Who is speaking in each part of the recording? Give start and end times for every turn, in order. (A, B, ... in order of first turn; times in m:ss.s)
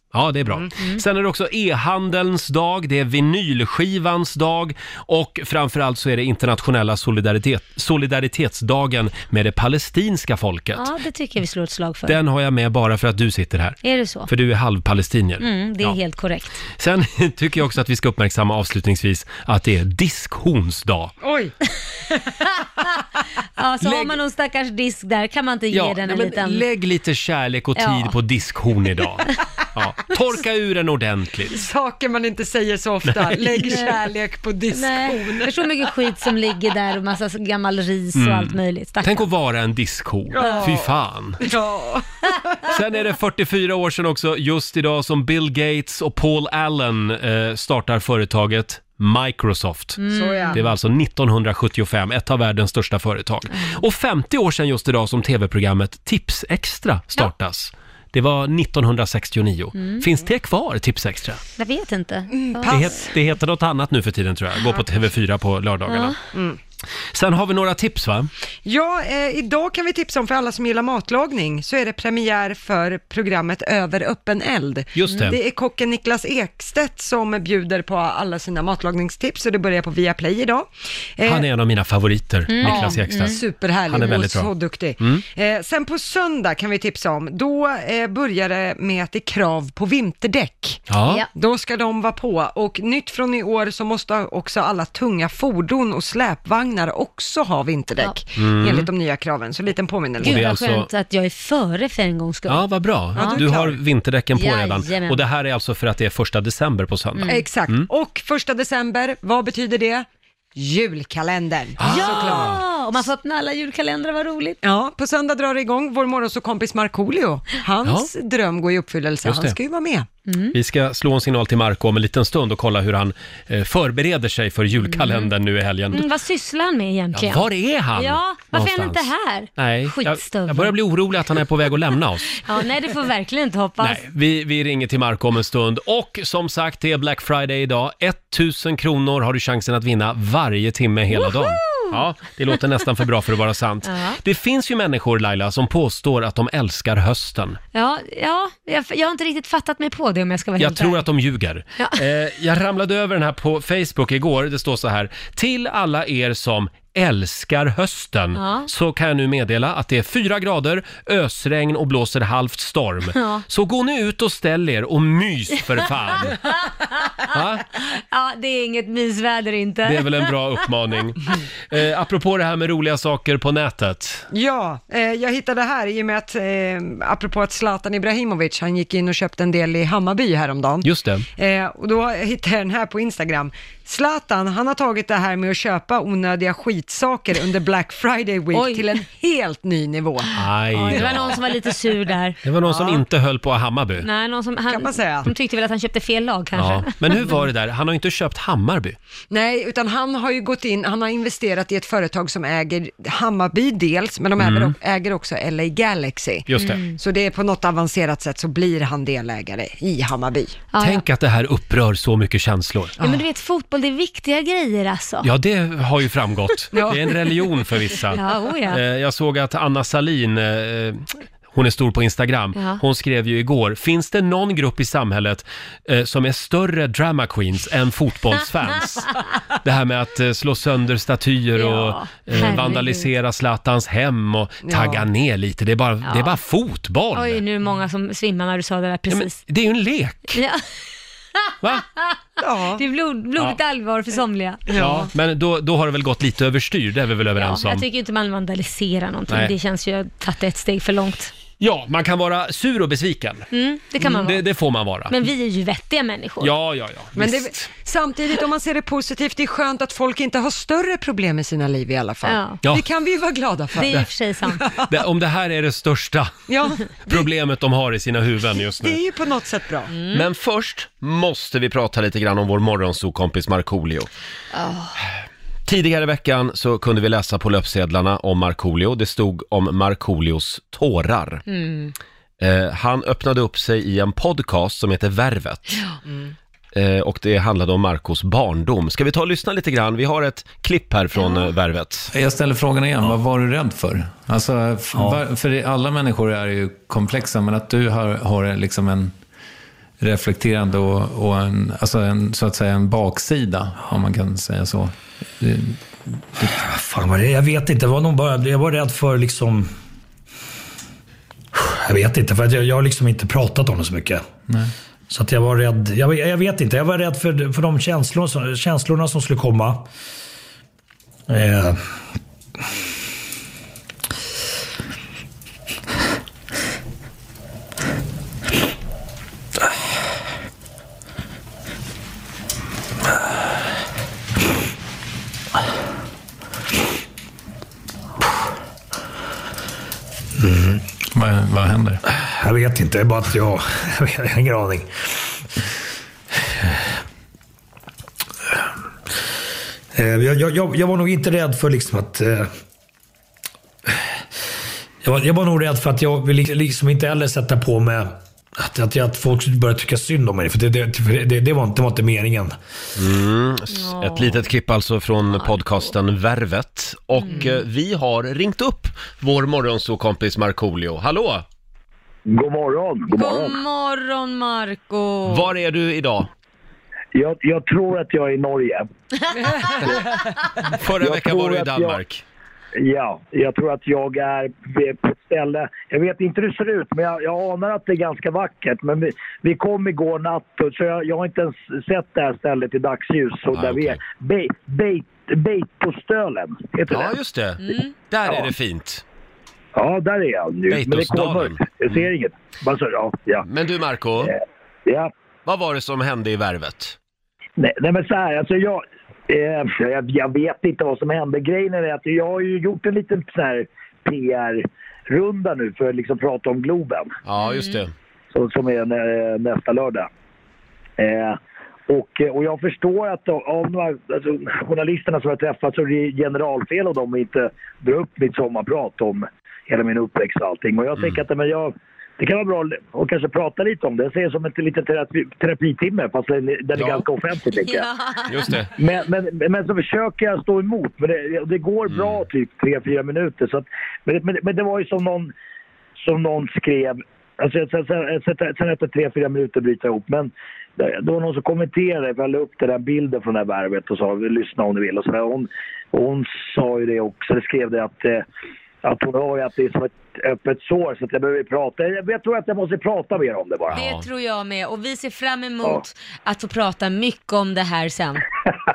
0:00.1-0:10.9 A
0:10.7-0:12.2 B
0:12.0-0:16.0 A
0:13.8-0:14.3 B
0:15.4-0:16.6 B
0:16.8-0:21.1 A
0:21.2-0:21.5 C
0:23.6-0:26.6 B
0:23.8-0:24.1 A
0:25.7-0:31.5 A
0:27.8-0:28.1 B
0:31.5-0:35.6 C
0:33.6-0:34.1 B
0:34.7-0:39.3 B
0:38.2-0:41.4 A
0:40.3-0:42.0 C
0:42.7-1:01.4 A
0:50.0-0:50.6 B
0:50.1-0:50.6 C
1:01.6-1:03.0 B
1:02.3-1:02.8 C
1:02.7-1:06.2 A
1:05.9-1:06.2 B
1:06.3-1:06.6 C
1:07.1-1:08.3 A
1:08.6-1:21.4 C
1:14.9-1:15.4 A
1:15.1-1:15.4 B
1:21.2-1:25.2 A
1:22.5-1:23.4 B
1:22.6-1:40.4 C
1:30.9-1:31.2 A
1:38.4-1:38.9 A
1:40.2-1:40.9 A
1:40.2-1:42.6 B
1:42.5-1:47.9 A
1:43.2-1:43.5 B
1:43.2-1:43.8 C
1:44.3-1:45.2 B
1:47.2-1:47.5 B
1:47.3-1:52.6 C
1:51.8-1:52.6 A
1:51.8-1:54.6 B
1:54.6-2:00.1 C
1:59.2-1:59.6 A
2:00.3-2:00.5 B
2:00.5-2:06.0 A
2:04.9-2:05.3 B
2:05.9-2:10.7 B
2:07.1-2:12.4 A
2:12.4-2:14.0 B
2:13.8-2:27.6 A
2:21.2-2:21.9 B
2:23.8-2:24.2 B
2:27.7-2:31.0 B
2:30.6-2:46.3 A
2:38.3-2:38.7 B
2:43.1-2:43.4 B
2:47.3-2:47.6 A
2:47.9-2:50.3 B
2:49.8-2:54.2 A
2:54.3-3:10.3 C
3:00.8-3:01.2 A
3:08.5-3:09.0 B
3:10.3-3:11.4 A
3:10.7-3:12.4 B
3:10.9-3:11.2 C
3:12.4-3:14.1 A
3:12.6-3:13.0 C
3:14.0-3:17.3 B
3:14.7-3:15.3 C
3:16.6-3:19.0 A
3:19.3-3:30.6 C
3:24.4-3:24.7 A
3:26.5-3:26.8 A
3:26.6-3:27.0 B
3:30.7-3:31.0 B
3:30.8-3:33.0 A
3:33.0-3:35.3 B
3:35.2-3:49.1 A
3:36.7-3:37.1 C
3:38.1-3:38.8 B
3:42.5-3:42.8 B
3:49.6-3:57.4 A
3:51.6-3:53.1 B
3:54.6-3:55.1 C
3:56.0-3:56.3 B
3:57.1-3:59.4 B
3:59.1-4:00.4 A
4:00.3-4:00.6 B
4:01.4-4:02.2 B
4:02.4-4:02.8 C
4:02.7-4:04.6 B
4:04.7-4:05.1 C
4:04.8-4:07.8 A
4:07.4-4:11.3 B
4:11.6-4:13.5 A
4:13.5-4:14.4 B
4:14.1-4:15.1 A
4:15.1-4:16.5 B
4:16.4-4:17.7 A
4:17.1-4:24.9 C
4:22.2-4:22.6 B
4:23.7-4:24.6 B
4:24.9-4:26.4 A
4:26.5-4:27.2 C
4:27.0-4:29.0 A
4:28.8-4:29.9 C
4:29.9-4:30.2 B
4:30.1-4:34.1 A
4:34.5-4:35.0 B
4:35.7-4:41.4 A
4:41.5-4:41.9 B
4:42.4-4:45.8 A
4:46.1-4:46.3 C
4:46.7-4:52.1 A
4:51.2-4:51.5 B
4:52.1-4:59.1 D
5:00.0-5:06.6 D
5:06.5-5:09.7 E
5:11.5-5:14.2 E
5:15.1-5:19.8 E
5:21.3-5:21.8 E
5:40.4-5:40.8 E
5:41.1-5:42.0 D
5:42.2-5:44.9 E
5:49.9-5:52.5 E
5:55.0-6:02.6 E
6:03.0-6:11.4 A
6:03.7-6:04.4 B
6:05.4-6:05.9 B
6:07.2-6:07.5 B
6:12.3-6:13.5 F
6:13.2-6:15.5 B
6:15.3-6:16.3 A
6:17.1-6:18.8 F
6:19.5-6:19.9 C
6:20.7-6:22.2 A
6:21.0-6:22.0 F
6:22.8-6:37.1 F
6:33.5-6:34.0 A
6:36.9-6:39.0 A
6:37.6-6:37.9 B
6:39.8-6:43.4 F
6:40.7-6:42.0 A
6:43.4-6:44.3 A
6:44.2-6:45.1 F
6:45.4-6:47.0 A
6:47.6-6:57.1 F
6:57.2-6:57.9 A
6:57.4-6:57.8 B
6:58.3-7:00.1 F
7:01.0-7:01.4 F
7:01.9-7:17.9 F
7:16.8-7:17.0 A
7:17.5-7:18.4 B
7:18.2-7:18.7 A
7:18.8-7:25.3 F
7:21.9-7:22.2 A
7:26.0-7:38.2 F
7:38.8-7:43.8 F
7:43.7-7:44.0 A
7:43.7-7:48.2 B